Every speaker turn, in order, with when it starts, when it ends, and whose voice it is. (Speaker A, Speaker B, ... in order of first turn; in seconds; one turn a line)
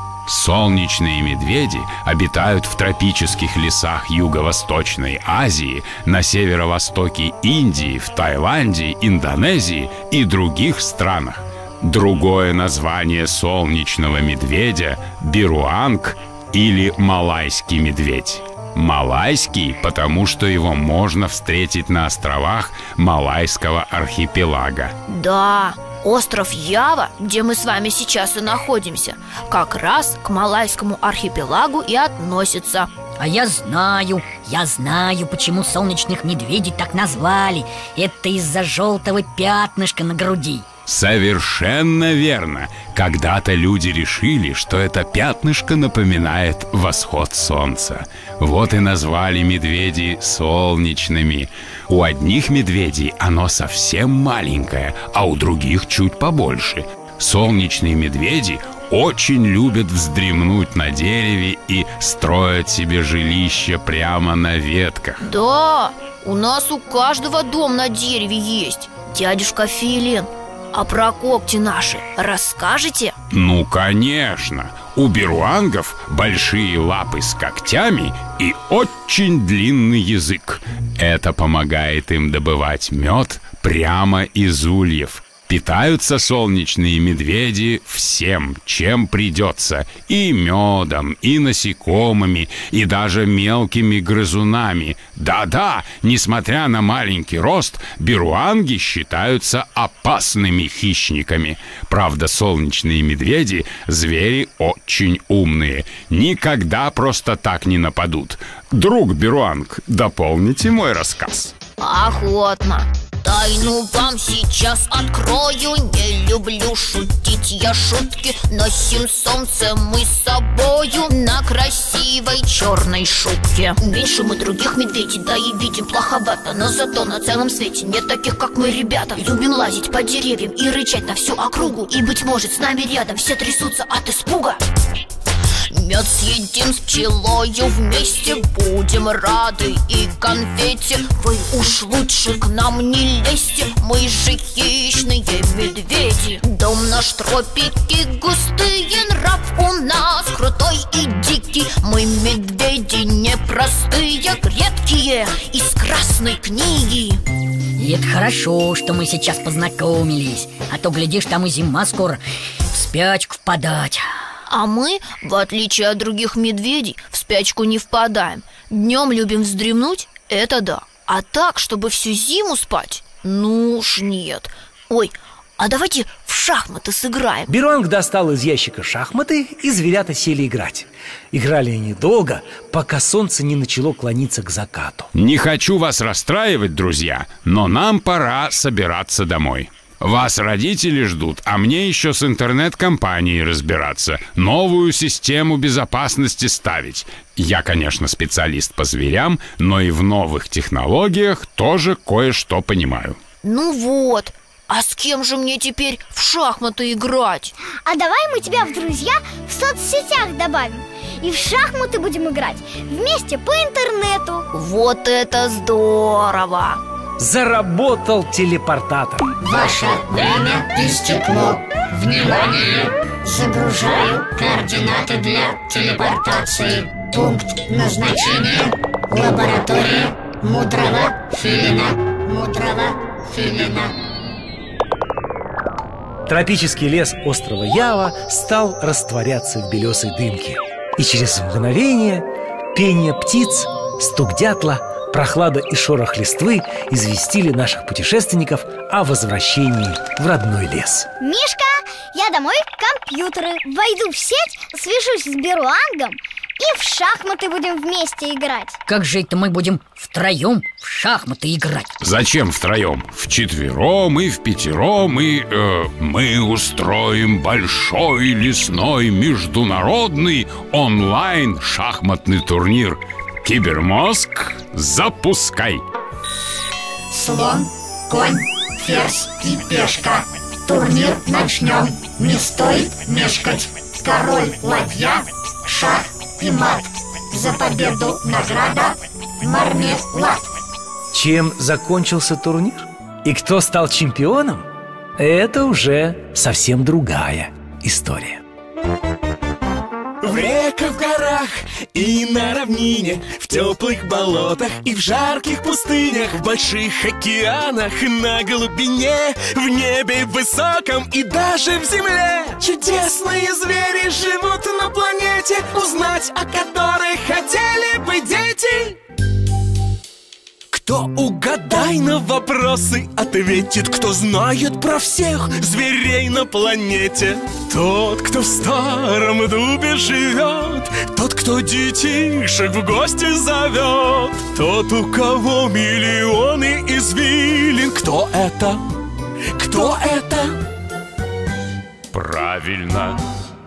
Speaker A: 0.3-24.9
Speaker B: 25.1-32.9
Speaker C: 33.2-40.7
Speaker A: 40.9-65.2
Speaker B: 65.2-73.1
Speaker A: 73.3-111.5
Speaker B: 111.8-134.6
Speaker B: 135.7-157.2
Speaker C: 157.8-162.2
Speaker C: 162.7-164.1
Speaker B: 164.5-177.5
Speaker D: 177.5-185.1
Speaker A: 185.1-203.2
Speaker B: 203.4-207.5
Speaker E: 207.9-214.5
Speaker B: 214.5-216.8
Speaker D: 217.2-219.3
Speaker F: 219.4-233.9
Speaker D: 236.3-251.1
Speaker E: 251.2-258.8
Speaker C: 258.9-261.9
Speaker A: 262.0-275.8
Speaker F: 277.1-290.5
Speaker D: 291.1-294.7
Speaker D: 295.2-298.4
Speaker G: 300.2-319.0
Speaker G: 320.7-338.8
Speaker G: 339.6-340.6
Speaker A: 342.1-343.2